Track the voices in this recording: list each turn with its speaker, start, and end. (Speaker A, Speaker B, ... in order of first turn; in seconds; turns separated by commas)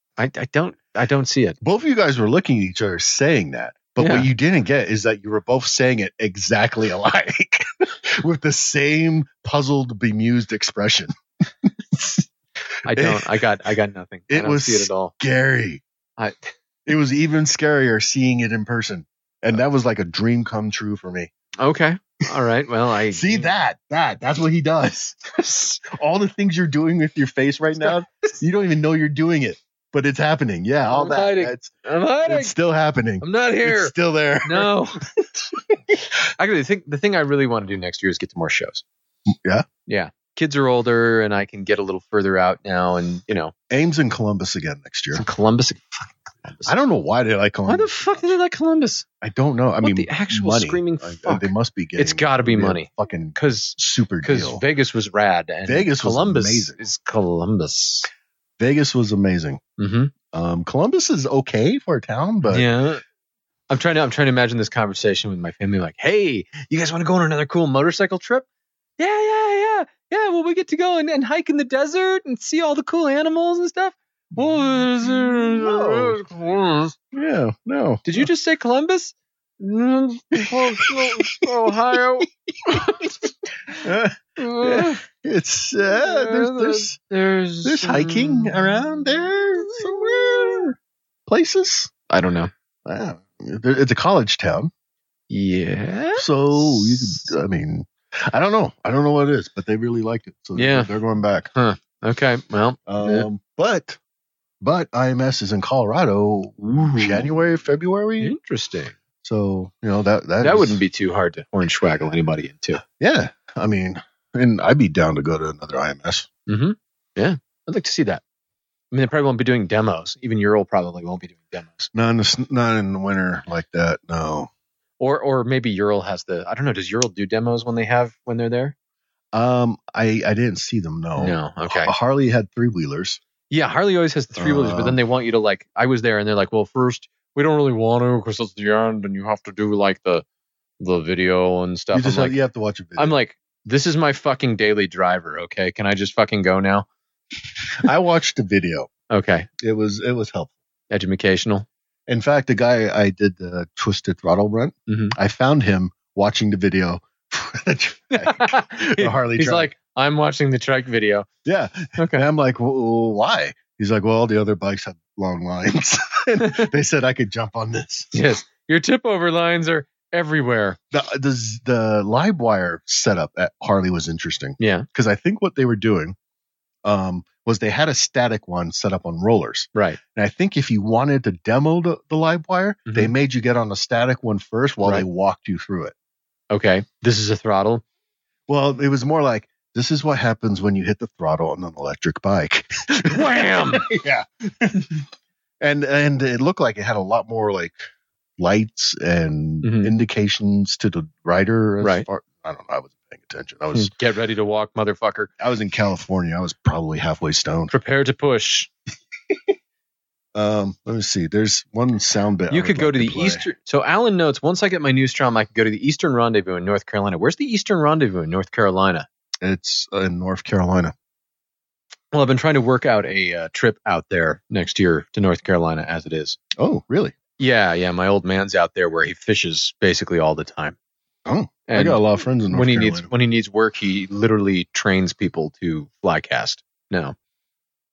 Speaker A: 0.2-1.6, Speaker B: 1.6-11.1, Speaker A: 4.0-4.3, Speaker B: 11.7-12.2, Speaker A: 12.8-15.1, Speaker B: 12.9-13.3, Speaker B: 14.3-15.8, Speaker B: 16.9-21.3, Speaker A: 21.6-23.5, Speaker B: 23.1-25.2, Speaker A: 25.4-25.8, Speaker B: 25.8-31.7, Speaker A: 30.9-32.5, Speaker B: 32.2-35.9, Speaker A: 33.2-35.0, Speaker A: 36.4-38.8, Speaker B: 39.3-39.6, Speaker A: 39.9-43.5, Speaker B: 43.7-45.2, Speaker A: 45.1-46.7, Speaker B: 46.6-48.3, Speaker A: 47.7-49.0, Speaker B: 49.2-54.6, Speaker A: 49.8-58.1, Speaker B: 55.6-56.8, Speaker B: 58.6-59.6, Speaker A: 59.8-60.1, Speaker B: 60.3-62.6, Speaker A: 62.5-63.0, Speaker A: 63.7-68.5, Speaker A: 69.0-77.0, Speaker B: 74.4-76.2, Speaker B: 77.1-78.3, Speaker A: 78.0-83.8, Speaker B: 80.3-81.5, Speaker B: 82.2-83.0, Speaker B: 83.8-87.0, Speaker A: 84.4-85.0, Speaker A: 85.9-89.0, Speaker B: 87.6-91.9, Speaker A: 89.6-90.6, Speaker A: 92.1-92.5, Speaker B: 92.8-94.7, Speaker A: 95.3-97.3, Speaker B: 96.2-101.5, Speaker A: 100.5-100.9, Speaker A: 101.5-103.3, Speaker B: 102.9-104.0, Speaker B: 104.6-108.3, Speaker A: 106.8-107.3, Speaker A: 108.2-109.0, Speaker B: 109.2-110.8, Speaker A: 110.4-112.8, Speaker B: 113.0-116.3, Speaker A: 116.5-118.2, Speaker A: 118.9-121.9, Speaker B: 121.9-124.5, Speaker A: 125.0-128.7, Speaker B: 129.3-133.2, Speaker A: 131.2-131.9, Speaker A: 133.5-140.2, Speaker B: 134.4-135.0, Speaker A: 140.8-142.4, Speaker B: 141.9-143.1, Speaker A: 143.0-146.8, Speaker B: 147.8-148.9, Speaker A: 149.1-149.5, Speaker B: 149.6-150.5, Speaker A: 150.9-151.7, Speaker B: 152.1-159.7, Speaker A: 154.9-155.2, Speaker A: 158.2-161.3, Speaker B: 161.4-168.1, Speaker A: 162.0-162.2, Speaker A: 168.1-170.8, Speaker B: 170.9-176.2, Speaker A: 174.6-174.8, Speaker B: 176.8-185.9, Speaker A: 179.7-180.0, Speaker A: 182.9-183.1, Speaker A: 186.5-187.8, Speaker B: 188.5-195.0, Speaker A: 193.1-193.9, Speaker B: 195.6-197.8, Speaker B: 198.4-203.9, Speaker A: 199.6-199.9, Speaker A: 203.7-205.3, Speaker B: 205.4-207.7, Speaker A: 207.7-208.7, Speaker B: 210.3-213.4, Speaker A: 212.5-219.1, Speaker B: 219.4-220.9, Speaker A: 222.1-226.4, Speaker B: 226.6-227.1, Speaker A: 227.4-230.8, Speaker B: 231.2-233.1, Speaker A: 231.7-237.1